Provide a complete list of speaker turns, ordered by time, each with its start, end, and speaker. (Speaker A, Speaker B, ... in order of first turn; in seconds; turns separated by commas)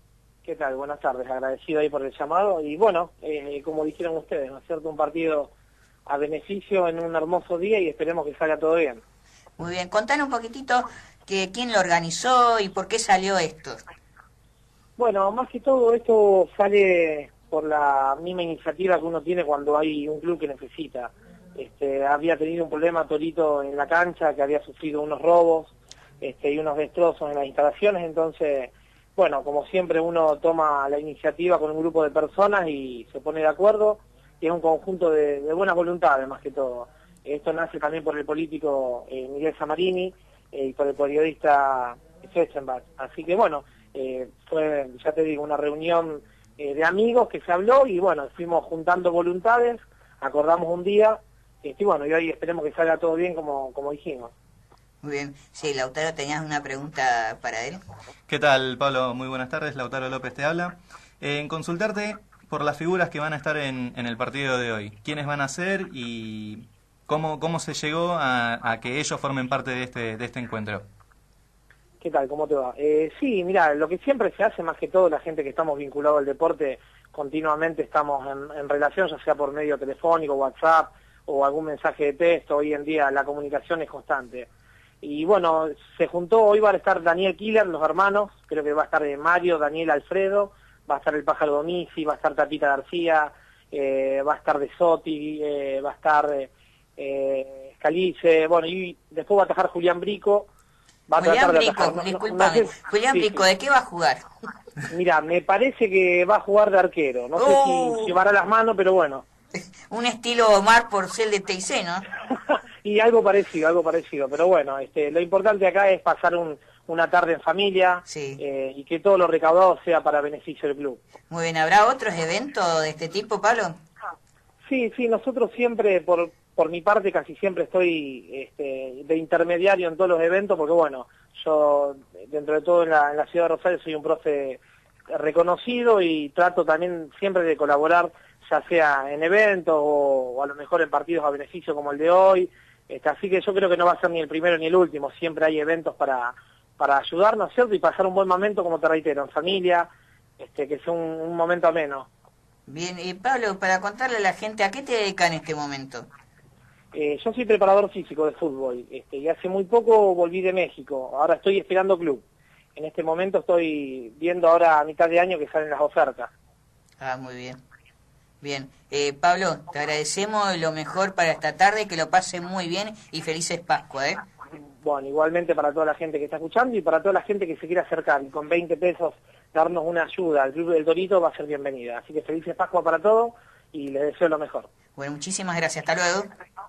Speaker A: 0.4-5.5, Speaker A: 6.1-9.0, Speaker B: 9.6-13.8, Speaker A: 15.0-54.3, Speaker B: 55.0-57.8, Speaker C: 58.3-70.9, Speaker A: 72.0-84.5, Speaker A: 85.0-100.5, Speaker A: 101.1-103.4, Speaker B: 101.2-104.3, Speaker A: 104.9-109.2, Speaker B: 107.4-108.2, Speaker B: 109.5-112.1, Speaker A: 112.8-121.0, Speaker B: 118.1-118.4, Speaker B: 121.3-123.8, Speaker A: 124.7-152.1, Speaker B: 152.7-156.1, Speaker A: 156.9-162.2, Speaker A: 162.8-166.3, Speaker B: 167.0-167.6, Speaker B: 168.4-174.2, Speaker A: 174.8-184.7, Speaker B: 185.0-186.3